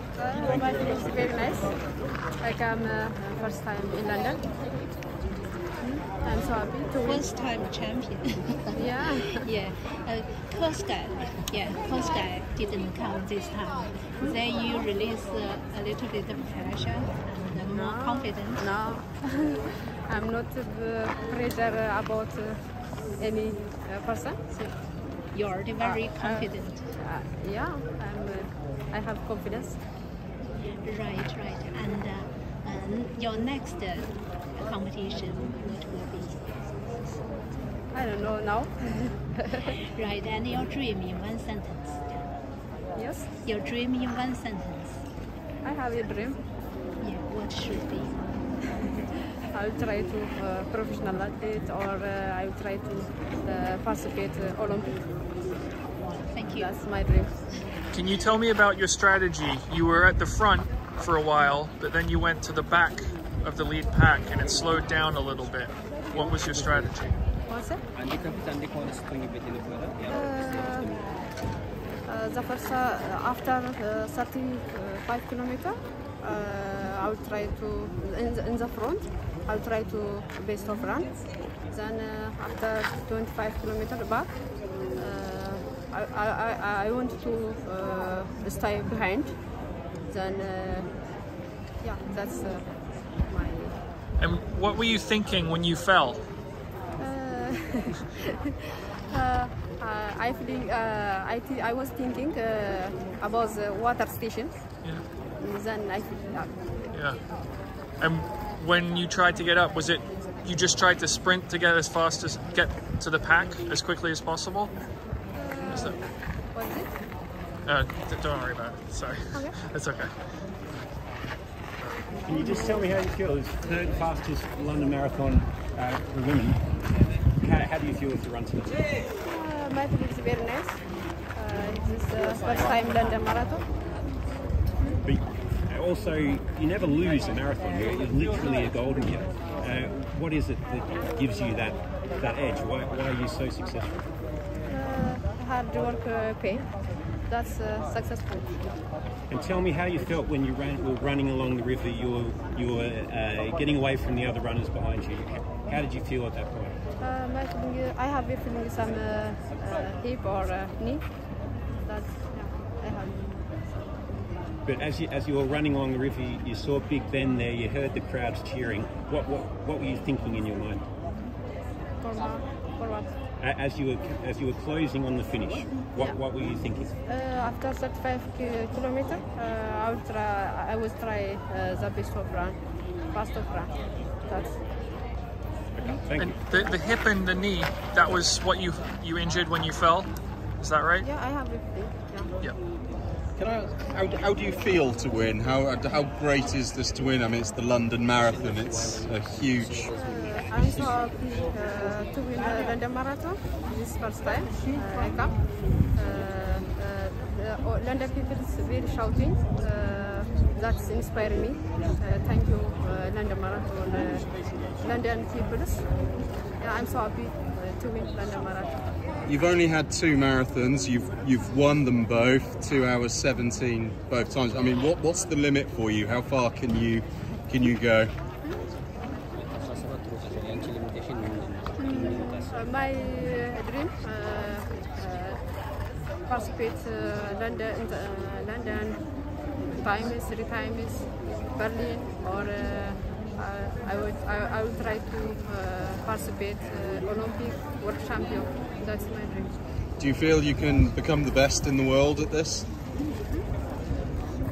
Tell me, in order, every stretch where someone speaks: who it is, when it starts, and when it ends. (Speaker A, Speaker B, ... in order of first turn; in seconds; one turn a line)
Speaker A: 0.1-1.8
Speaker B: 0.4-1.5
Speaker A: 2.4-4.5
Speaker A: 5.8-7.3
Speaker C: 7.0-18.8
Speaker A: 8.7-9.4
Speaker A: 17.7-24.9
Speaker C: 25.3-26.9
Speaker A: 25.8-29.8
Speaker C: 30.5-37.6
Speaker A: 37.9-39.6
Speaker C: 39.7-42.1
Speaker A: 42.9-43.3
Speaker C: 43.4-45.1
Speaker A: 45.6-46.4
Speaker C: 47.0-48.8
Speaker A: 49.5-55.1
Speaker C: 55.9-57.0
Speaker A: 56.4-57.4
Speaker D: 57.9-67.2
Speaker A: 67.5-67.8
Speaker E: 67.9-71.1
Speaker A: 70.1-71.0
Speaker A: 72.0-89.5
Speaker A: 90.1-91.1
Speaker A: 91.8-93.8
Speaker D: 94.2-96.2
Speaker A: 97.0-98.0
Speaker A: 99.1-104.8
Speaker A: 105.4-106.6
Speaker D: 106.9-107.3
Speaker D: 108.0-114.7
Speaker A: 115.3-116.9
Speaker D: 115.7-116.0
Speaker D: 117.7-120.3
Speaker A: 119.3-119.6
Speaker B: 122.3-126.6
Speaker A: 122.3-122.8
Speaker B: 127.4-128.8
Speaker A: 129.2-133.7
Speaker B: 135.0-144.0
Speaker A: 144.7-148.7
Speaker B: 149.3-156.8
Speaker A: 157.0-161.2
Speaker A: 161.8-164.0
Speaker B: 164.7-170.9
Speaker A: 172.0-173.1
Speaker B: 173.4-176.9
Speaker A: 175.9-176.2
Speaker A: 177.1-184.6
Speaker B: 185.8-186.4
Speaker D: 186.2-191.1
Speaker A: 191.0-192.3
Speaker F: 193.3-199.9
Speaker E: 198.1-201.2
Speaker A: 199.9-218.9
Speaker F: 219.3-228.1
Speaker E: 229.3-232.5
Speaker A: 231.8-235.5
Speaker A: 236.2-249.6
Speaker F: 250.0-252.7
Speaker A: 253.1-253.5